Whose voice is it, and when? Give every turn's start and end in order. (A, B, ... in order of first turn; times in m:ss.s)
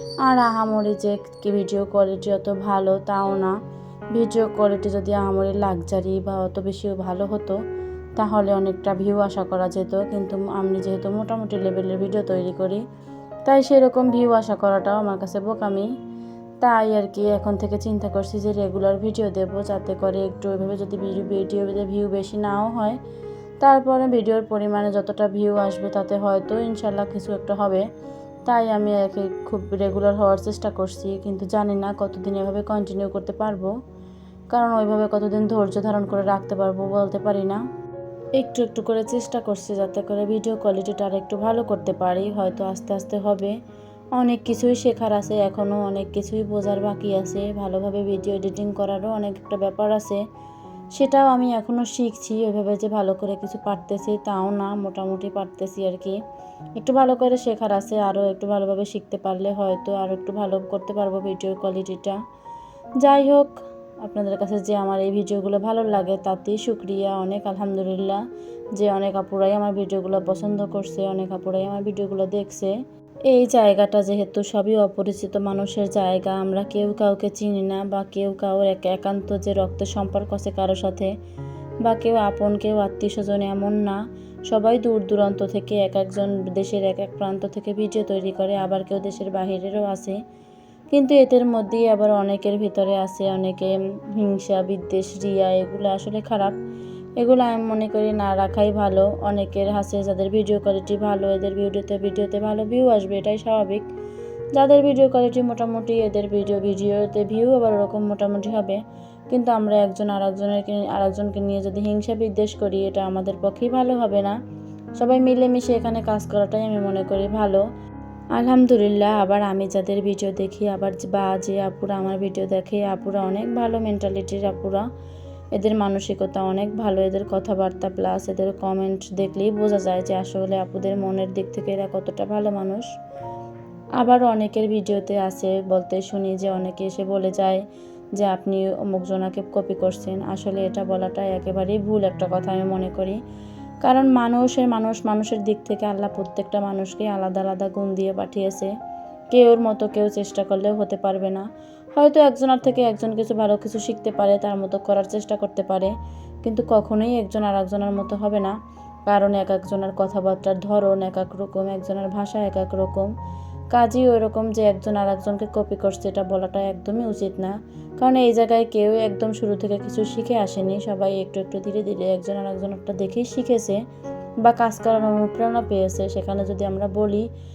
0:00.2-0:03.6 A
0:04.1-0:07.6 A
0:08.2-0:12.8 A
0:13.4-0:15.9 A
0:16.6-0:23.0 A
0:23.6-0:27.9 A
0:28.4-0:33.7 A
0:34.5-0:37.6 A
0:38.4-0:43.6 A
0:44.2-0:50.2 A
0:51.0-0:56.2 A
0:56.8-1:02.2 A
1:03.0-1:08.2 A
1:08.7-1:12.8 A
1:13.3-1:21.1 A
1:21.8-1:30.2 A
1:30.9-1:36.5 A
1:37.2-1:43.8 A
1:44.6-1:54.4 A
1:55.0-1:57.6 A
1:58.3-2:04.8 A
2:05.5-2:12.9 A
2:14.0-2:17.6 A
2:18.2-2:23.2 A
2:23.8-2:28.7 A
2:29.3-2:38.5 A
2:39.1-2:43.1 A
2:43.7-2:53.8 A
2:54.4-2:57.2 A